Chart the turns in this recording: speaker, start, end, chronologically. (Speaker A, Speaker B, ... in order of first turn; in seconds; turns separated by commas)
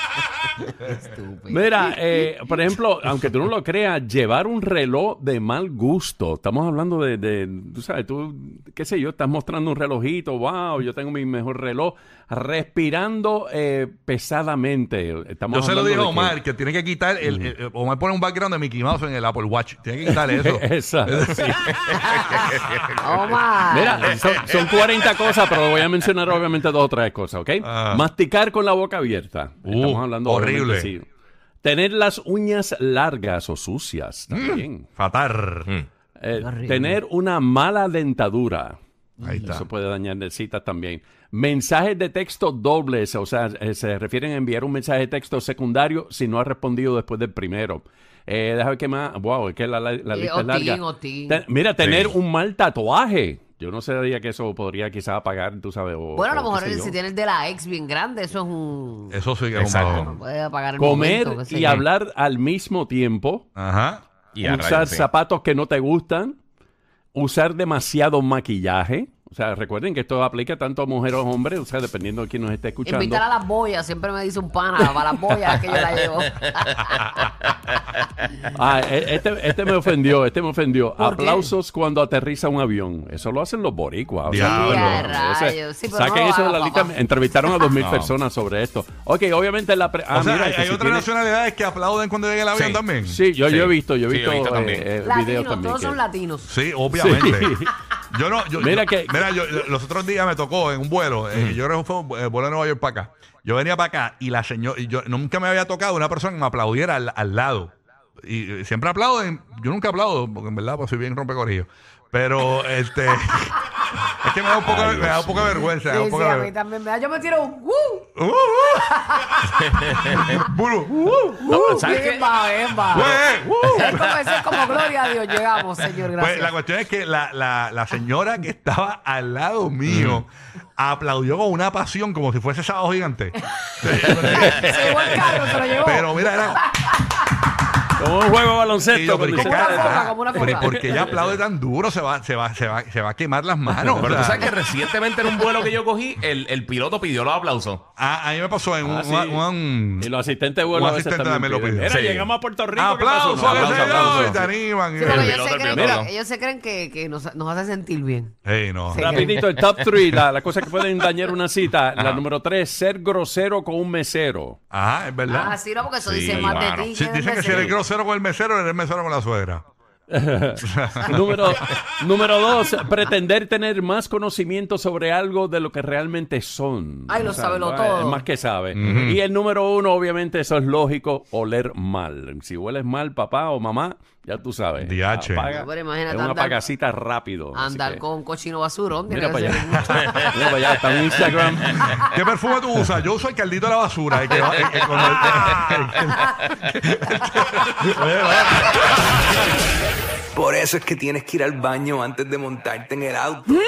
Speaker A: 0.6-1.9, Speaker B: 1.5-16.4, Speaker C: 15.5-22.9, Speaker B: 17.2-17.5, Speaker B: 20.0-21.6, Speaker D: 21.7-22.7, Speaker A: 23.0-24.1, Speaker B: 23.7-31.1, Speaker C: 27.6-28.1, Speaker C: 29.7-30.9, Speaker B: 31.6-34.9, Speaker C: 34.3-35.7, Speaker B: 36.2-38.8, Speaker A: 36.4-37.0, Speaker A: 39.2-39.6, Speaker C: 39.2-39.7, Speaker B: 39.4-57.0, Speaker A: 50.1-51.4, Speaker C: 51.8-52.1, Speaker A: 56.1-59.2, Speaker C: 59.1-60.1, Speaker D: 59.6-60.0, Speaker A: 59.8-61.8, Speaker B: 60.8-63.5, Speaker C: 63.5-64.0, Speaker D: 64.3-65.1, Speaker B: 64.4-66.4, Speaker B: 67.1-73.2, Speaker A: 72.8-77.0, Speaker D: 75.7-77.7, Speaker B: 78.5-91.1, Speaker A: 81.0-81.5, Speaker C: 84.2-85.0, Speaker A: 84.3-86.9, Speaker D: 87.8-88.1, Speaker C: 90.1-93.2, Speaker D: 92.5-92.8, Speaker B: 93.0-96.0, Speaker D: 93.4-94.8, Speaker A: 95.0-96.5, Speaker C: 96.5-107.7, Speaker B: 96.9-97.7, Speaker B: 98.6-99.2, Speaker C: 108.2-116.5, Speaker D: 114.6-115.6, Speaker A: 115.8-118.1, Speaker C: 118.2-118.9, Speaker A: 118.7-119.6, Speaker D: 119.6-120.4, Speaker C: 120.0-121.9, Speaker A: 121.3-126.5, Speaker D: 121.5-122.2, Speaker C: 122.9-124.9, Speaker D: 123.6-124.0, Speaker C: 126.0-136.6, Speaker D: 129.9-130.2, Speaker A: 134.0-137.3, Speaker D: 134.1-134.5, Speaker B: 134.5-135.6, Speaker B: 138.0-141.4, Speaker C: 138.9-144.5, Speaker A: 139.4-140.8, Speaker D: 144.0-147.8, Speaker C: 148.0-150.1, Speaker B: 148.8-149.4, Speaker B: 150.0-154.5, Speaker C: 150.7-151.9, Speaker D: 151.9-152.3, Speaker C: 152.7-155.3, Speaker D: 153.5-154.3, Speaker A: 154.9-158.3, Speaker D: 155.0-156.1, Speaker B: 155.1-156.0, Speaker C: 158.4-159.3, Speaker A: 158.8-159.3, Speaker B: 159.0-164.6, Speaker D: 159.5-160.1, Speaker D: 161.9-162.2, Speaker C: 164.7-165.6, Speaker A: 165.3-167.7, Speaker D: 166.0-166.9, Speaker C: 166.3-169.6, Speaker D: 167.5-167.7, Speaker B: 170.1-188.0, Speaker C: 170.6-171.7, Speaker A: 177.1-178.2, Speaker C: 178.7-179.2, Speaker C: 184.8-185.5, Speaker A: 185.5-186.6, Speaker A: 187.5-190.0, Speaker B: 189.1-191.9, Speaker C: 189.9-190.2, Speaker C: 191.6-199.2, Speaker D: 194.3-195.8, Speaker E: 200.3-203.4